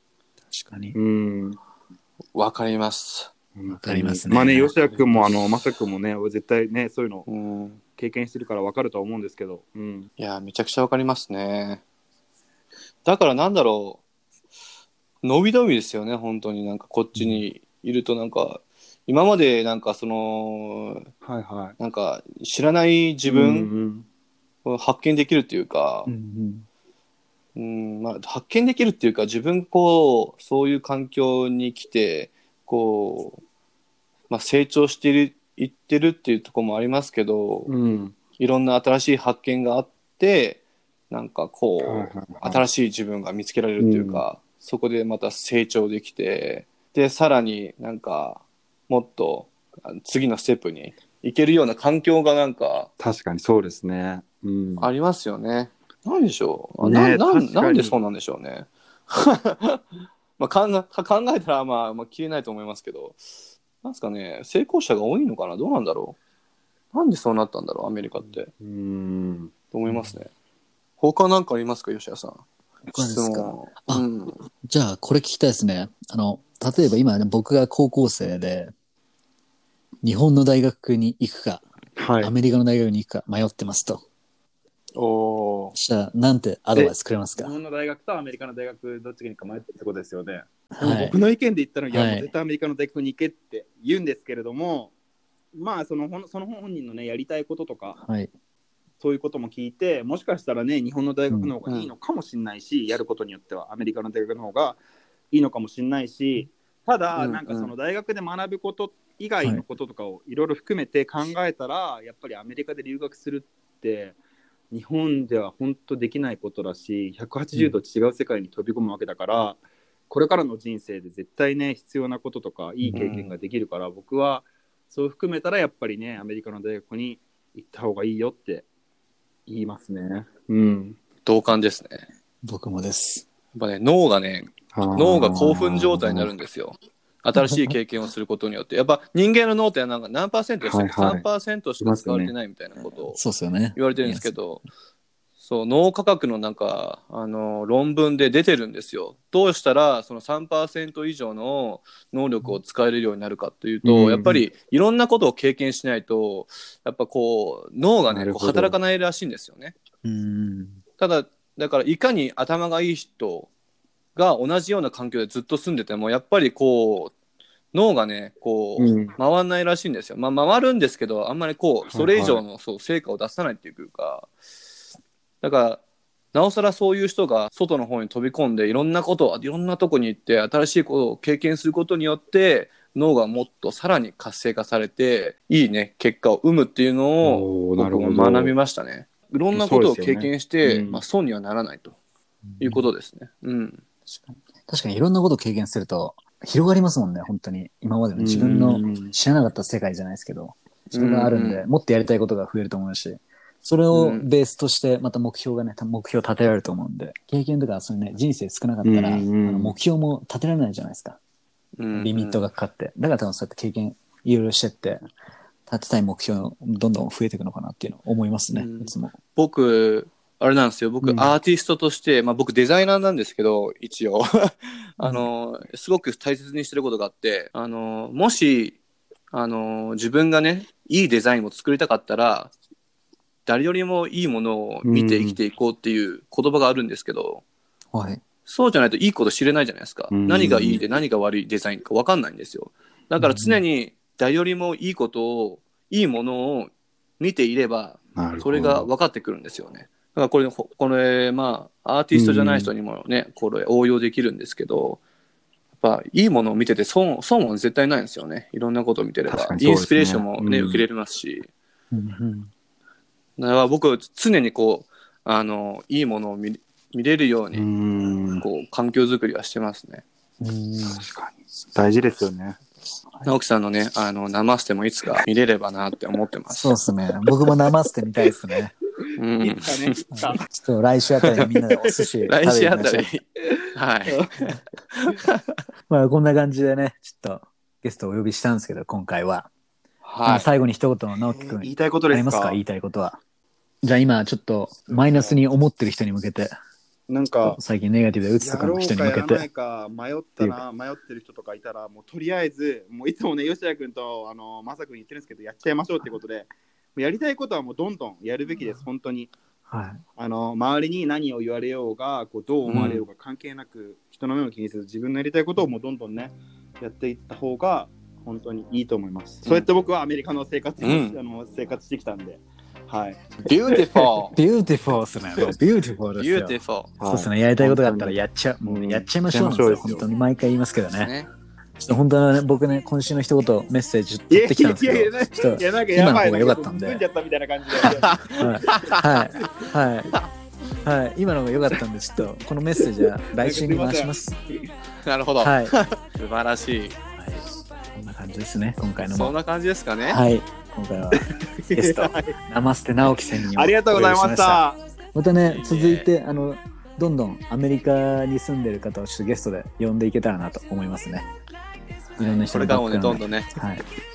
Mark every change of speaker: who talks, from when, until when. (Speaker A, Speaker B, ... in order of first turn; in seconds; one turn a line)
Speaker A: 0.5-1.0
Speaker B: 0.9-1.6
Speaker C: 2.3-3.3
Speaker B: 3.6-7.3
Speaker A: 3.7-5.3
Speaker C: 7.3-7.8
Speaker B: 8.0-10.1
Speaker C: 10.2-11.8
Speaker C: 13.1-14.0
Speaker C: 15.2-21.1
Speaker A: 17.1-17.4
Speaker B: 21.2-21.8
Speaker C: 21.8-23.7
Speaker B: 23.3-24.1
Speaker C: 24.6-26.1
Speaker A: 26.1-26.6
Speaker C: 27.6-33.4
Speaker C: 34.3-37.7
Speaker B: 37.7-38.1
Speaker C: 38.4-52.9
Speaker B: 41.8-42.6
Speaker B: 43.8-44.2
Speaker B: 53.0-54.9
Speaker C: 54.8-59.8
Speaker B: 56.8-58.0
Speaker C: 60.4-63.2
Speaker C: 63.8-66.2
Speaker C: 66.9-68.5
Speaker B: 68.6-69.5
Speaker C: 69.7-70.3
Speaker A: 69.9-70.2
Speaker C: 71.0-74.4
Speaker A: 72.9-74.1
Speaker A: 74.6-78.7
Speaker A: 80.0-81.6
Speaker B: 82.0-82.3
Speaker A: 82.2-84.0
Speaker C: 85.0-85.7
Speaker A: 85.8-87.5
Speaker B: 86.8-94.9
Speaker A: 90.7-91.2
Speaker A: 91.9-92.3
Speaker B: 95.5-98.0
Speaker A: 98.0-98.3
Speaker B: 99.0-104.8
Speaker C: 101.7-101.9
Speaker B: 105.3-114.2
Speaker C: 107.2-107.7
Speaker B: 114.7-128.7
Speaker A: 122.8-123.3
Speaker C: 122.9-123.2
Speaker B: 129.5-131.0
Speaker C: 131.2-132.1
Speaker A: 132.4-133.3
Speaker C: 133.5-143.2
Speaker B: 134.7-136.3
Speaker A: 137.4-137.8
Speaker B: 140.6-141.2
Speaker B: 141.8-142.3
Speaker A: 143.1-144.3
Speaker C: 143.8-144.6
Speaker C: 145.4-159.8
Speaker B: 153.8-154.4
Speaker B: 158.1-158.8
Speaker A: 160.0-160.8
Speaker C: 161.0-163.5
Speaker C: 164.2-167.1
Speaker C: 167.7-174.3
Speaker B: 168.8-169.2
Speaker B: 171.9-172.4
Speaker C: 175.4-175.8
Speaker C: 176.3-192.0
Speaker B: 187.2-188.5
Speaker B: 189.5-191.0
Speaker A: 192.5-192.8
Speaker C: 192.6-193.8
Speaker A: 194.1-211.2
Speaker B: 198.2-199.1
Speaker C: 198.4-198.9
Speaker C: 200.9-201.6
Speaker C: 203.9-204.3
Speaker B: 208.8-209.8
Speaker C: 211.8-212.4
Speaker A: 211.9-215.0
Speaker A: 215.7-219.2
Speaker C: 218.5-228.8
Speaker B: 221.0-221.3
Speaker A: 225.0-225.3
Speaker C: 229.3-232.5
Speaker C: 233.5-237.4
Speaker B: 234.8-235.4
Speaker A: 237.9-238.2
Speaker C: 238.5-255.0
Speaker B: 240.1-240.8
Speaker A: 243.2-243.6
Speaker B: 248.2-248.9
Speaker B: 252.1-252.7
Speaker C: 255.8-261.5
Speaker B: 259.3-260.9
Speaker A: 261.9-262.5
Speaker C: 263.4-267.7
Speaker B: 267.5-268.4
Speaker C: 268.4-270.0
Speaker A: 270.4-271.1
Speaker B: 270.9-272.6
Speaker C: 273.2-276.7
Speaker A: 276.5-278.7
Speaker B: 279.1-280.4
Speaker C: 279.2-280.0
Speaker A: 280.1-283.1
Speaker C: 281.2-281.5
Speaker C: 282.3-284.3
Speaker B: 283.6-284.5
Speaker C: 285.0-285.4
Speaker A: 285.9-289.5
Speaker C: 290.0-290.5
Speaker A: 290.2-293.2
Speaker B: 291.3-292.6
Speaker A: 293.8-296.6
Speaker B: 295.0-295.4
Speaker B: 297.1-297.6
Speaker A: 297.4-299.4
Speaker B: 298.4-309.3
Speaker A: 309.7-310.0
Speaker B: 310.2-324.1
Speaker C: 312.7-313.0
Speaker A: 312.7-313.0
Speaker C: 320.8-321.2
Speaker C: 323.5-324.4
Speaker A: 324.4-331.1
Speaker C: 326.2-326.9
Speaker B: 327.0-330.1
Speaker C: 331.0-331.3
Speaker A: 331.8-337.0
Speaker B: 334.3-339.7
Speaker C: 338.3-339.0
Speaker A: 338.3-340.1
Speaker A: 340.9-344.4
Speaker B: 343.0-344.1
Speaker C: 345.0-347.0
Speaker A: 345.4-345.7
Speaker A: 347.2-349.3
Speaker C: 349.1-350.2
Speaker A: 350.0-354.6
Speaker B: 351.1-352.4
Speaker B: 353.5-354.8
Speaker A: 355.1-361.3
Speaker C: 355.4-356.1
Speaker A: 362.2-363.8
Speaker C: 362.2-363.5